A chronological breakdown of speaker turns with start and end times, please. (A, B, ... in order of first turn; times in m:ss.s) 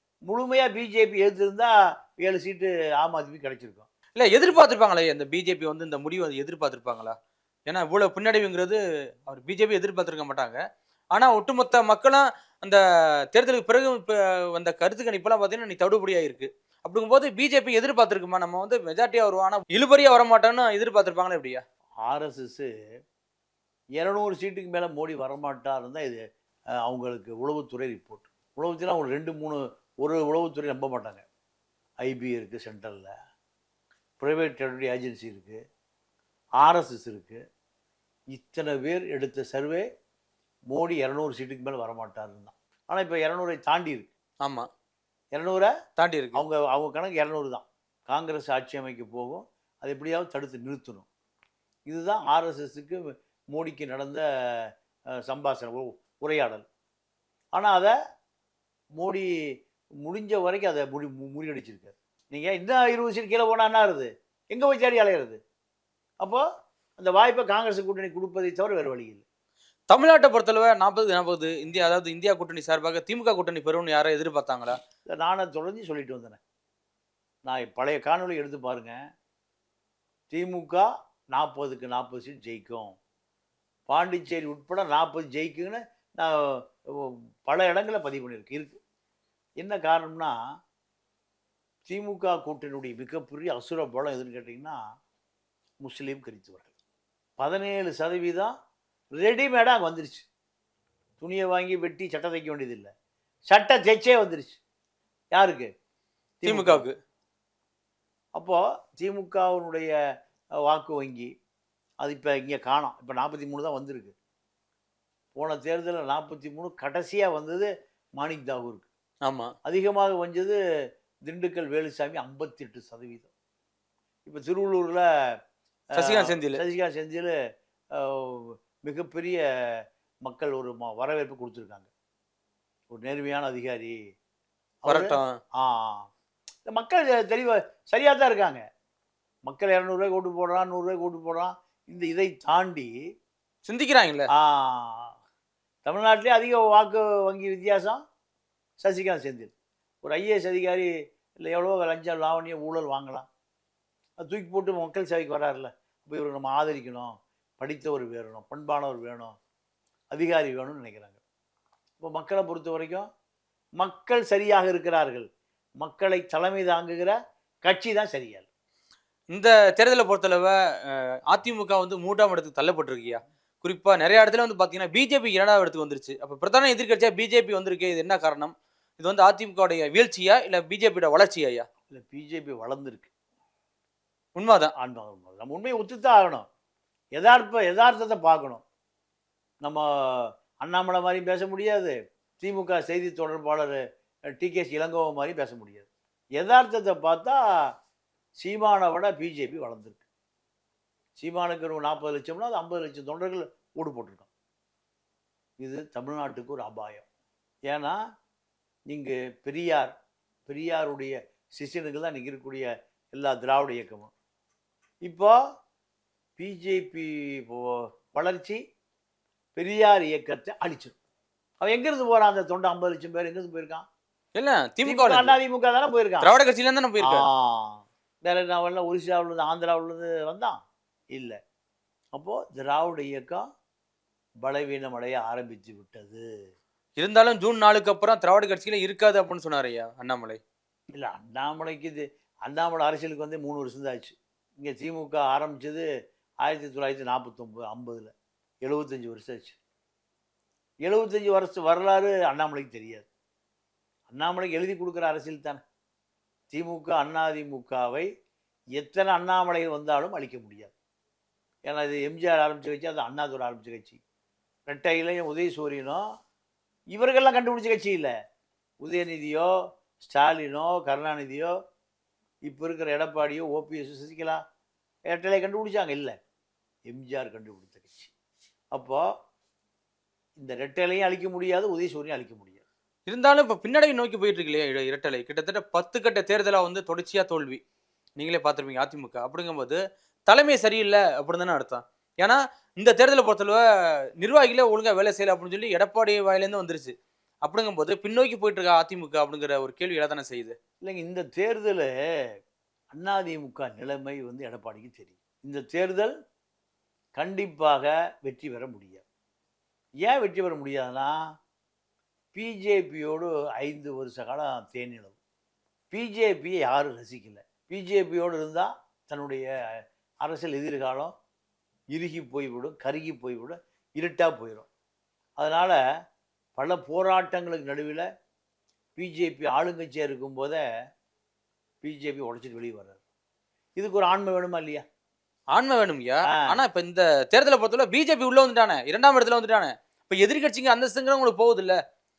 0:00.3-0:03.9 A
0:04.2-0:07.2 B
0:07.7-0:10.6 B
0:11.1-0:12.8 B
0:13.3-0:21.6 B
0:22.1-0:22.7 A
0:24.0-0:26.2 A
0:26.8-0:31.2 A
0:32.0-0:33.1 A
0:34.2-0:35.6 A
0:36.6-0:37.4 A
0:38.3-0:39.8 A
0:40.7-0:44.1 A
0:44.4-0:44.7 B
0:45.3-0:45.7 A
0:46.0-0:46.4 B
0:46.4-0:51.1 A
0:51.9-0:56.6 A
0:57.6-0:58.0 A
0:59.0-1:05.4 A
1:07.0-1:09.2 A
1:09.9-1:14.8 B
1:15.1-1:16.4 A
1:17.4-1:19.0 A
1:20.3-1:23.0 A
1:23.9-1:28.8 A
1:29.6-1:30.4 A
1:31.9-1:34.8 A
1:35.8-1:36.7 A
1:37.4-1:38.5 A
1:39.2-1:40.3 A
1:41.2-1:42.9 A
1:43.5-1:44.6 A
1:45.3-1:45.7 A
1:46.4-1:46.9 A
1:46.4-1:47.0 B
1:48.4-1:50.0 A
1:50.6-1:51.3 A
1:52.0-1:54.1 A
1:55.4-1:58.9 A
1:59.2-1:59.5 B
1:59.7-2:00.6 A
2:01.3-2:03.3 A
2:04.3-2:05.0 A
2:05.9-2:07.3 A
2:06.0-2:06.6 B
2:08.0-2:11.9 A
2:12.9-2:14.0 A
2:14.8-2:16.1 A
2:14.9-2:15.4 B
2:16.7-2:18.6 A
2:19.5-2:22.9 A
2:23.6-2:24.3 B
2:24.3-2:25.2 A
2:25.8-2:28.0 A
2:28.8-2:33.3 A
2:34.2-2:39.4 A
2:40.1-2:41.2 A
2:42.0-2:43.1 A
2:43.8-2:45.3 A
2:45.8-2:48.5 A
2:49.3-3:01.7 B
3:01.9-3:03.1 A
3:04.4-3:04.7 B
3:04.8-3:06.5 A
3:07.2-3:08.6 A
3:09.6-3:13.8 A
3:14.4-3:17.4 A
3:18.4-3:20.0 A
3:21.2-3:24.3 A
3:25.6-3:27.0 A
3:27.7-3:28.0 A
3:28.9-3:29.9 A
3:30.5-3:34.1 A
3:35.0-3:35.4 A
3:36.4-3:38.6 A
3:39.6-3:41.0 A
3:41.6-3:43.8 A
3:44.4-3:45.4 B
3:44.8-3:46.4 A
3:46.2-3:47.3 B
3:47.0-3:50.6 A
3:51.1-3:51.4 A
3:52.2-3:53.4 A
3:54.4-3:56.2 A
3:57.0-4:00.4 B
4:01.0-4:05.8 A
4:06.4-4:08.1 A
4:08.6-4:09.6 A
4:10.8-4:13.1 A
4:14.1-4:15.6 A
4:16.5-4:18.1 A
4:18.8-4:20.7 A
4:21.7-4:24.0 A
4:24.7-4:26.0 A
4:26.9-4:28.1 A
4:28.8-4:31.6 A
4:32.5-4:34.4 A
4:35.1-4:36.2 A
4:36.9-4:38.1 A
4:38.7-4:39.0 A
4:40.4-4:42.6 A
4:43.1-4:47.6 B
4:48.2-4:53.6 B
4:54.2-5:00.6 B
5:00.8-5:01.9 A
5:02.9-5:06.1 A
5:07.2-5:09.0 A
5:10.0-5:11.2 A
5:12.3-5:15.2 A
5:15.9-5:21.1 A
5:21.9-5:24.7 A
5:25.4-5:25.8 A
5:26.6-5:28.0 A
5:29.0-5:30.6 A
5:31.8-5:33.0 A
5:33.8-5:34.8 A
5:35.5-5:41.8 B
5:36.3-5:36.6 A